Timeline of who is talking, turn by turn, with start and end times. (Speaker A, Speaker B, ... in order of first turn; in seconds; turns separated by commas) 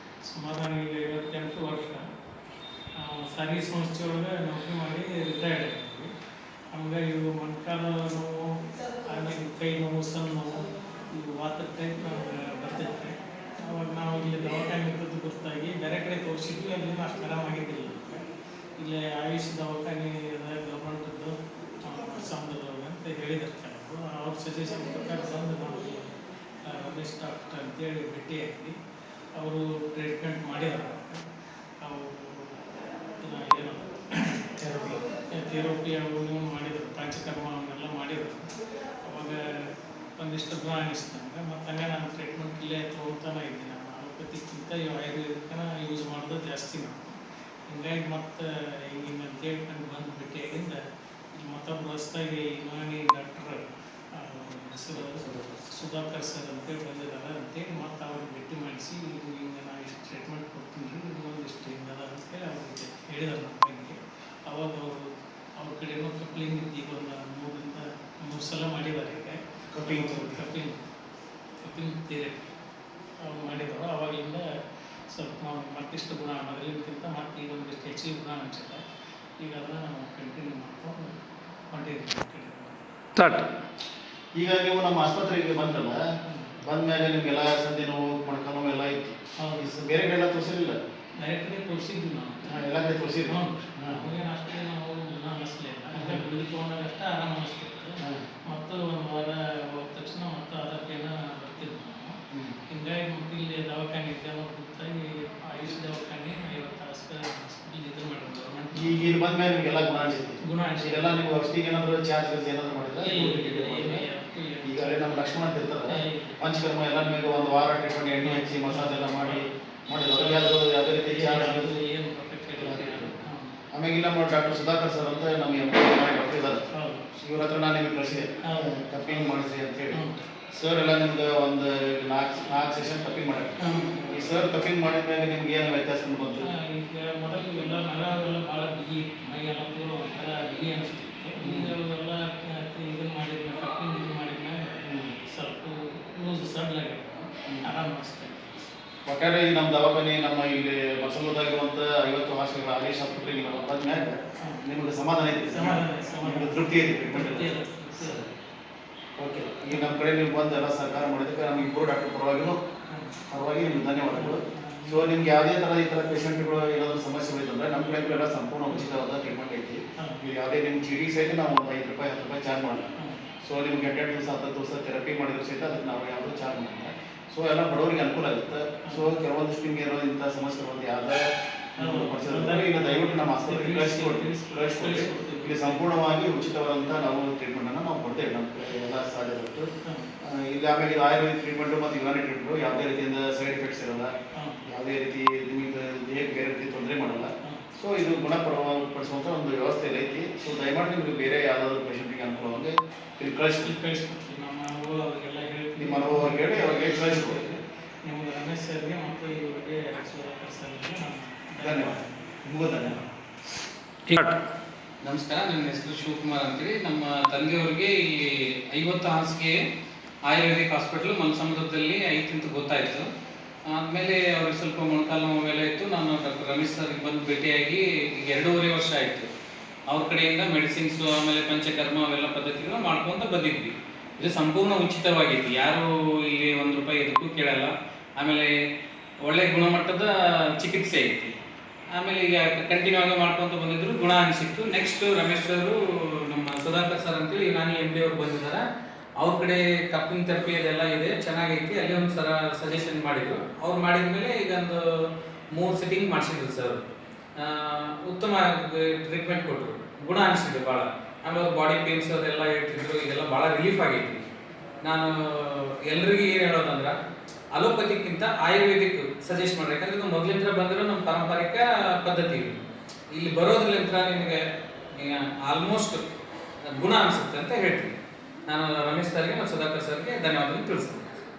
Speaker A: 0.2-2.0, Speaker A: 3.0-6.1, Speaker A: 6.7-18.2, Speaker A: 18.8-28.8, Speaker A: 29.3-31.3, Speaker A: 31.8-38.5, Speaker A: 39.0-50.8, Speaker A: 51.3-70.8, Speaker B: 55.0-55.5, Speaker B: 69.7-70.4, Speaker A: 71.6-72.5, Speaker A: 73.2-74.5, Speaker A: 75.1-78.8, Speaker A: 79.4-81.2, Speaker A: 81.7-82.9, Speaker C: 83.2-83.5, Speaker B: 84.3-86.0, Speaker A: 86.2-86.5, Speaker B: 86.6-90.8, Speaker A: 89.4-89.7, Speaker A: 91.2-92.6, Speaker B: 92.4-94.1, Speaker A: 93.3-109.1, Speaker B: 95.9-96.3, Speaker B: 108.7-114.0, Speaker A: 110.4-111.2, Speaker A: 113.0-115.3, Speaker B: 114.6-121.8, Speaker A: 115.9-116.4, Speaker A: 118.2-119.5, Speaker A: 120.1-123.6, Speaker B: 122.6-123.1, Speaker B: 123.7-126.6, Speaker A: 126.7-127.1, Speaker B: 127.2-136.5, Speaker A: 128.4-129.4, Speaker A: 129.9-130.2, Speaker A: 133.6-134.7, Speaker A: 136.4-148.7, Speaker B: 141.4-141.7, Speaker B: 144.8-145.2, Speaker B: 149.1-158.3, Speaker A: 155.5-158.2, Speaker B: 159.2-162.6, Speaker A: 159.7-160.0, Speaker A: 162.9-163.2, Speaker B: 163.3-189.7, Speaker A: 164.1-165.3, Speaker A: 173.0-173.3, Speaker A: 178.8-179.1, Speaker A: 181.8-185.9, Speaker A: 189.8-190.1, Speaker B: 190.2-194.1, Speaker A: 194.3-194.7, Speaker B: 194.7-203.7, Speaker A: 203.6-212.2, Speaker B: 205.8-207.5, Speaker B: 211.6-213.0, Speaker A: 212.8-213.1, Speaker C: 214.1-214.4, Speaker C: 215.0-219.6, Speaker C: 220.3-223.1, Speaker C: 223.7-229.3, Speaker C: 229.9-238.5, Speaker C: 239.2-241.4, Speaker C: 241.9-248.6, Speaker C: 249.2-256.8, Speaker C: 257.4-264.2, Speaker C: 264.9-266.9, Speaker C: 267.6-272.6, Speaker C: 273.1-274.4, Speaker C: 274.9-276.1, Speaker C: 276.7-277.9, Speaker C: 278.5-281.1